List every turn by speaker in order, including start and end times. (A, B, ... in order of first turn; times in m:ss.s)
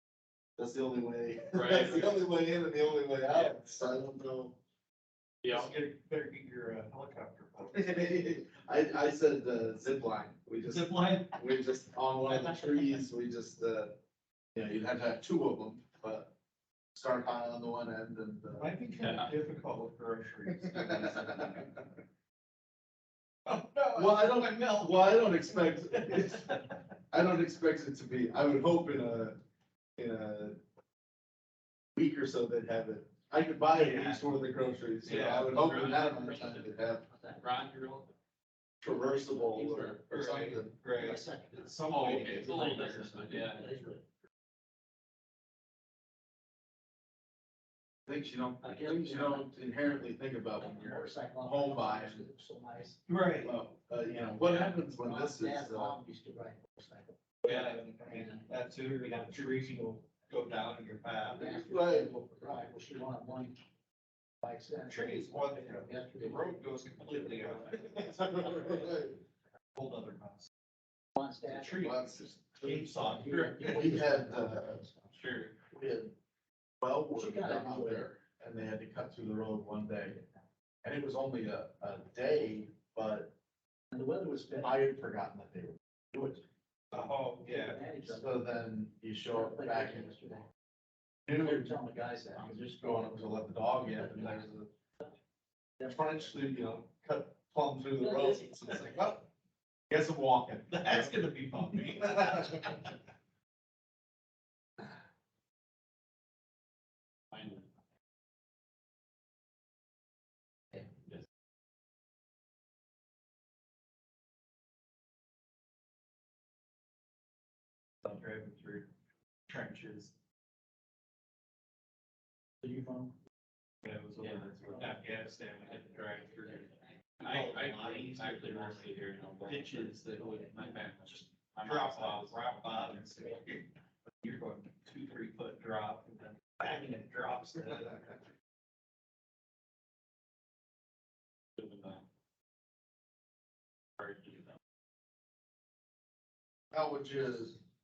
0:00.6-0:04.6 A
0:01.5-0:02.3 B
0:03.3-0:03.8 C
0:05.4-0:05.7 B
0:05.5-0:08.2 C
0:07.7-0:14.0 A
0:10.6-0:11.4 C
0:12.3-0:12.9 C
0:14.5-0:16.3 A
0:16.9-0:18.7 A
0:18.5-0:21.9 C
0:19.0-0:19.3 B
0:20.8-0:21.6 A
0:23.4-0:26.8 C
0:23.9-0:26.5 A
0:27.1-0:29.4 A
0:30.0-0:30.6 A
0:32.0-0:37.0 A
0:33.7-0:34.3 C
0:35.0-0:35.9 C
0:35.1-0:36.7 B
0:37.0-0:37.4 D
0:37.4-0:38.1 B
0:38.8-0:40.8 A
0:38.8-0:40.0 D
0:40.1-0:43.0 C
0:40.9-0:44.0 D
0:41.9-0:43.7 B
0:48.1-0:52.2 A
0:48.6-0:49.6 D
0:50.6-0:53.0 D
0:53.1-0:53.5 C
0:53.4-0:56.0 A
0:54.4-0:54.7 B
0:54.9-0:58.5 D
0:57.4-1:01.6 C
0:57.5-0:57.7 B
1:01.3-1:03.6 D
1:01.3-1:02.2 A
1:04.4-1:07.9 D
1:04.8-1:08.8 C
1:07.7-1:09.2 A
1:09.7-1:10.5 C
1:11.2-1:11.8 D
1:11.4-1:12.0 C
1:11.7-1:13.1 A
1:12.5-1:14.0 C
1:13.0-1:15.1 D
1:13.6-1:14.8 A
1:15.1-1:15.5 B
1:15.7-1:16.1 A
1:16.8-1:20.2 A
1:17.1-1:18.0 D
1:20.8-1:23.3 A
1:23.9-1:24.8 D
1:24.6-1:26.4 A
1:26.9-1:27.8 C
1:27.4-1:28.4 D
1:28.0-1:30.1 A
1:29.3-1:30.5 D
1:31.3-1:31.8 A
1:31.4-1:34.4 D
1:32.3-1:34.7 A
1:35.8-1:36.4 D
1:35.8-1:39.3 A
1:38.0-1:38.5 D
1:39.9-1:41.2 A
1:40.7-1:42.9 C
1:42.1-1:42.8 A
1:47.3-1:47.7 B
1:58.0-1:58.9 C
1:59.5-2:00.1 C
2:02.6-2:03.2 D
2:03.8-2:08.9 C
2:04.2-2:04.5 B
2:07.2-2:12.4 B
2:09.4-2:13.7 C
2:14.2-2:18.2 C
2:21.6-2:22.0 B
2:24.0-2:24.5 B
2:26.7-2:27.6 A